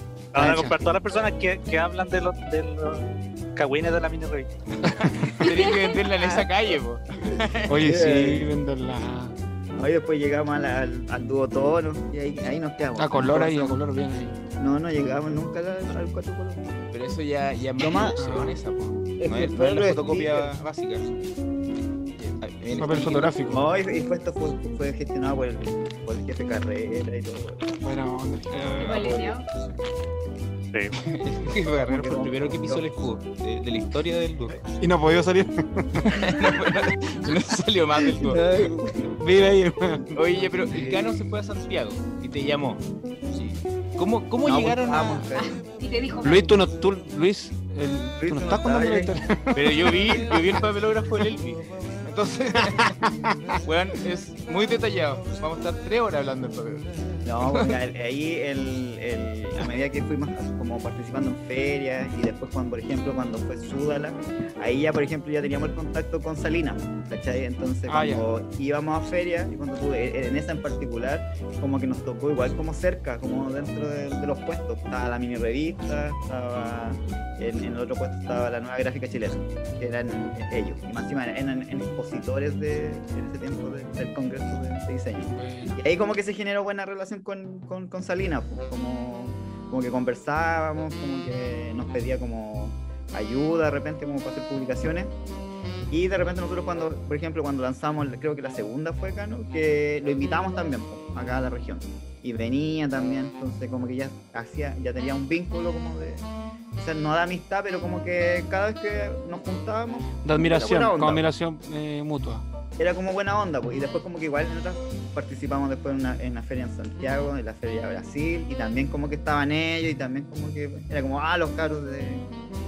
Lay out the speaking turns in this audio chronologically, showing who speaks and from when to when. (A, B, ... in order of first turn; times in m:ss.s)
0:00.3-0:04.6 A
0:00.4-0:00.8 B
0:00.4-0:00.9 C
0:04.8-0:05.4 B
0:05.3-0:07.9 D
0:05.4-0:06.0 E
0:06.2-0:06.7 C
0:07.2-0:08.5 C
0:07.7-0:09.3 B
0:09.8-0:13.8 C
0:13.0-0:14.4 B
0:14.6-0:16.6 C
0:16.9-0:21.1 D
0:17.8-0:18.2 C
0:18.2-0:18.6 B
0:19.2-0:20.5 C
0:22.2-0:23.4 D
0:22.8-0:23.6 B
0:23.5-0:27.7 C
0:27.8-0:29.2 B
0:28.8-0:29.4 C
0:28.8-0:29.5 E
0:31.0-0:34.6 D
0:31.9-0:32.8 C
0:34.8-0:36.3 B
0:36.0-0:38.4 D
0:38.0-0:39.2 C
0:39.2-0:40.1 B
0:40.1-0:45.3 D
0:40.7-0:41.0 C
0:44.4-0:45.6 C
0:45.3-0:46.6 E
0:46.2-0:49.7 B
0:48.2-0:49.1 C
0:49.5-0:53.0 D
0:52.7-0:53.3 B
0:53.6-0:56.9 D
0:57.2-1:35.1 C
0:57.4-0:57.7 D
1:07.9-1:08.3 B
1:25.3-1:25.8 B
1:35.9-1:51.2 C
1:50.2-1:52.4 B
1:52.8-2:02.2 C